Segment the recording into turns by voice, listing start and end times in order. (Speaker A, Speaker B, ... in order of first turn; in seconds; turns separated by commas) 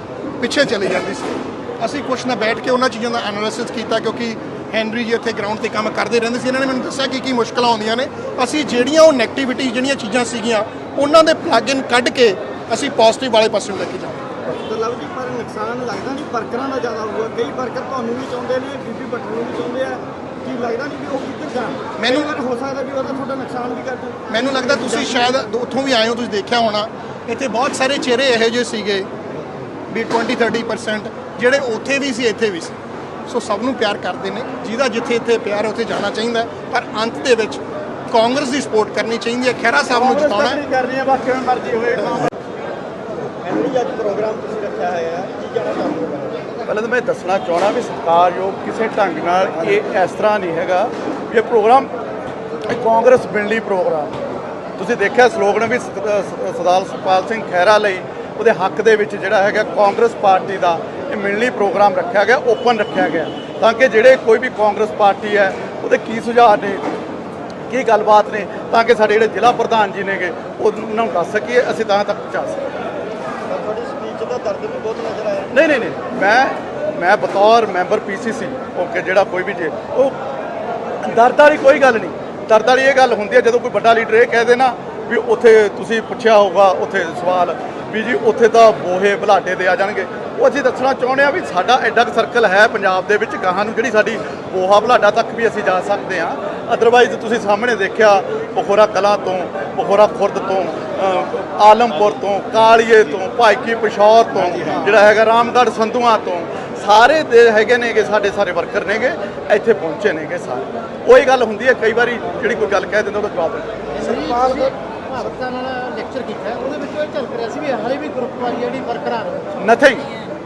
Speaker A: 0.4-14.2, Speaker B: 14.5-25.4, Speaker A: 22.0-22.3, Speaker A: 24.3-29.1, Speaker A: 29.9-40.6, Speaker B: 40.0-42.3, Speaker B: 43.4-46.6, Speaker C: 46.7-51.9, Speaker C: 52.7-54.1, Speaker C: 54.8-66.8, Speaker C: 67.7-72.7, Speaker B: 73.5-75.5, Speaker C: 75.5-80.2, Speaker C: 81.0-113.7, Speaker D: 114.0-119.5, Speaker C: 119.6-120.1